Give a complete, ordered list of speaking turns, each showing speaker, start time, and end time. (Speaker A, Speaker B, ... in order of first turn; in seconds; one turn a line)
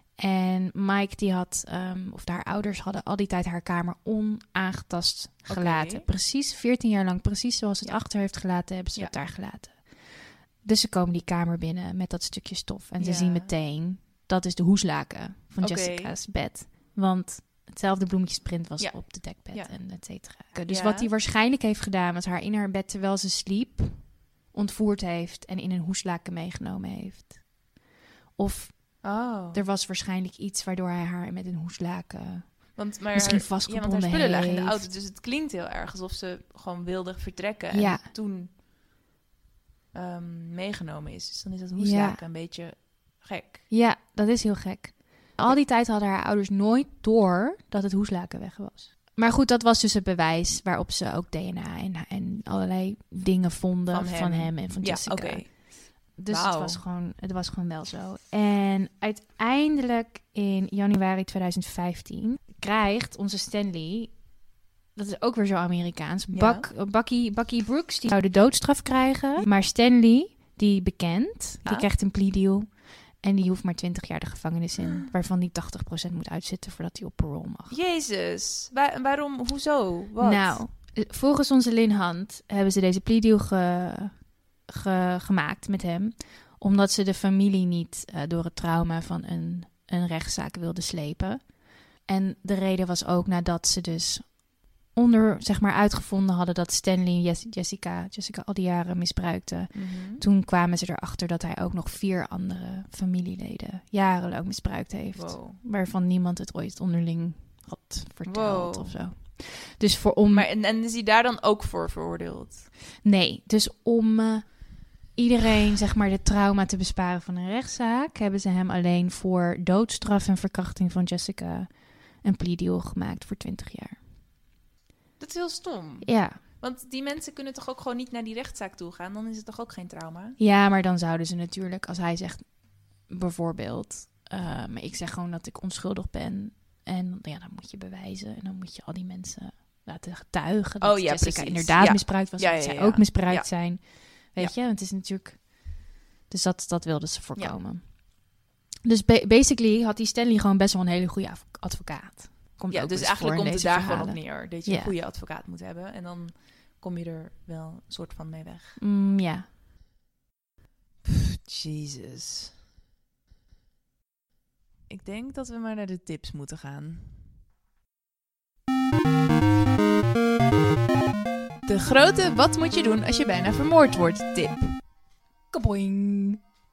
Speaker A: 0.2-27.4
Speaker B: 5.5-6.1
Speaker B: 13.0-13.5
Speaker B: 15.6-16.1
Speaker B: 18.8-19.8
Speaker B: 20.7-21.1
Speaker A: 28.4-34.9
Speaker B: 29.0-29.6
Speaker B: 32.8-38.5
Speaker A: 37.7-38.1
Speaker B: 39.9-43.7
Speaker A: 41.8-42.2
Speaker A: 43.7-64.2
Speaker B: 53.9-56.8
Speaker A: 64.9-77.8
Speaker B: 66.3-66.7
Speaker B: 77.7-80.6
Speaker A: 80.2-110.5
Speaker B: 99.7-100.2
Speaker B: 105.1-105.6
Speaker B: 108.2-109.0
Speaker B: 110.3-112.7
Speaker A: 113.0-124.0
Speaker B: 125.2-130.4
Speaker A: 126.0-126.4
Speaker A: 130.4-148.2
Speaker B: 140.8-144.5
Speaker A: 148.8-154.9
Speaker B: 152.7-158.8
Speaker A: 158.8-159.4
Speaker B: 161.0-162.5
Speaker B: 164.9-167.2
Speaker B: 171.7-174.7
Speaker A: 175.5-176.4